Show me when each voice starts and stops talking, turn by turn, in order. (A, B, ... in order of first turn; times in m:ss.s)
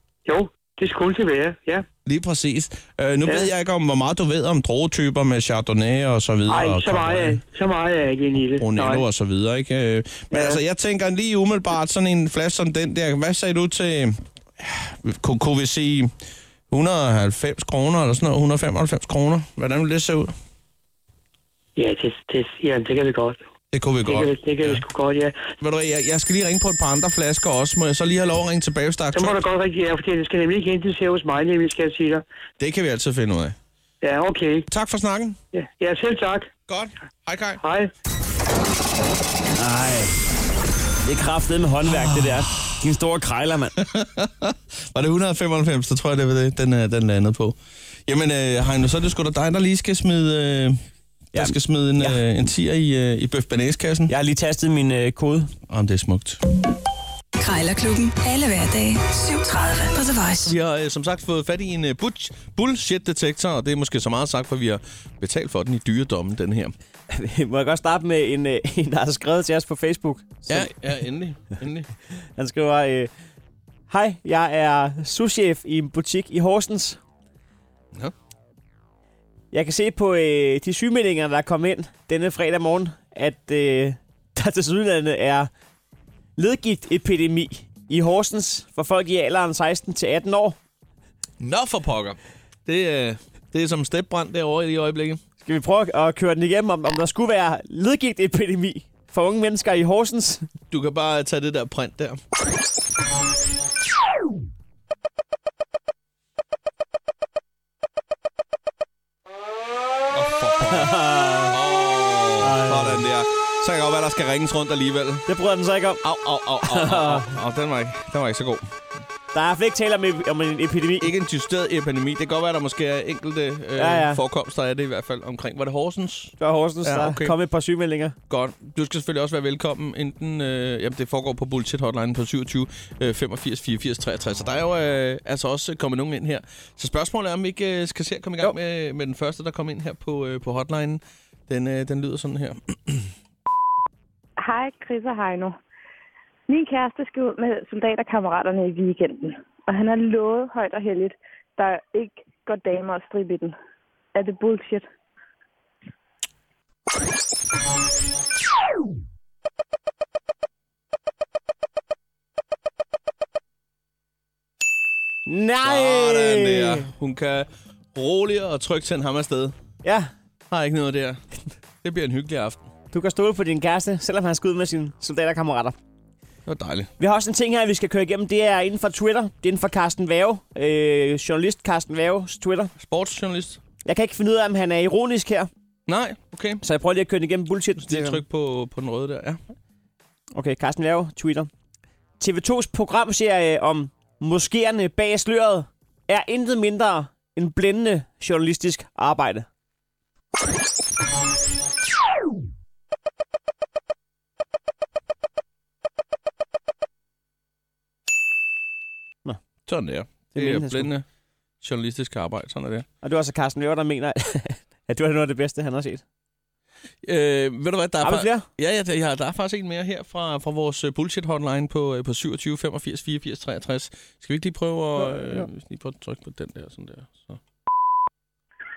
0:00.2-0:01.8 A
0:02.0-0:07.4 B
0:06.5-0:09.0 A
0:08.6-0:16.1 B
0:10.3-0:10.6 A
0:16.7-0:20.3 B
0:21.8-0:23.4 A
0:23.7-0:24.8 B
0:24.0-0:25.5 A
0:25.6-0:29.4 B
0:29.1-0:32.2 A
0:32.6-0:33.6 B
0:34.0-0:34.7 A
0:34.7-0:35.4 B
0:35.5-0:36.5 A
0:36.7-0:37.6 B
0:37.6-0:37.9 A
0:39.6-0:40.2 C
0:41.0-0:43.8 C
0:43.8-0:50.8 B
0:51.3-0:52.2 C
0:51.3-0:54.1 B
0:54.1-0:55.5 C
0:55.7-0:56.4 B
0:57.4-1:00.5 D
1:00.4-1:06.7 B
1:07.1-1:10.7 C
1:10.5-1:11.9 B
1:12.4-1:13.1 C
1:13.9-1:17.0 C
1:19.5-1:25.5 C
1:26.4-1:30.6 C
1:31.4-1:35.2 B
1:35.4-1:40.5 C
1:40.7-1:42.2 B
1:50.1-1:51.0 B
1:50.6-1:51.6 C
1:51.5-1:55.3 B
1:52.4-1:53.1 C
1:55.3-1:56.0 C
1:56.0-1:58.7 B
1:56.6-1:57.3 C
1:59.3-2:01.1 C
2:01.0-2:07.3 B
2:03.8-2:04.2 C
2:06.4-2:08.2 C
2:08.3-2:23.1 B
2:24.4-2:25.6 E
2:26.5-2:33.6 E
2:34.1-2:34.9 E
2:45.3-2:46.9 C
2:45.6-2:49.5 B
2:49.8-2:50.1 C
2:50.5-2:51.2 B
2:51.8-2:52.6 B
2:52.9-2:55.8 C
2:56.4-2:56.9 B
2:57.0-3:02.7 C
3:02.8-3:03.6 B
3:03.8-3:05.5 C
3:05.9-3:06.6 B
3:06.6-3:08.2 C
3:07.8-3:09.4 B
3:10.3-3:11.5 C
3:12.2-3:19.5 C
3:29.7-3:31.0 B
3:30.3-3:30.9 C
3:31.6-3:32.9 B
3:33.0-3:36.0 C
3:37.0-3:47.4 B
3:38.0-3:38.5 C
3:45.1-3:45.4 C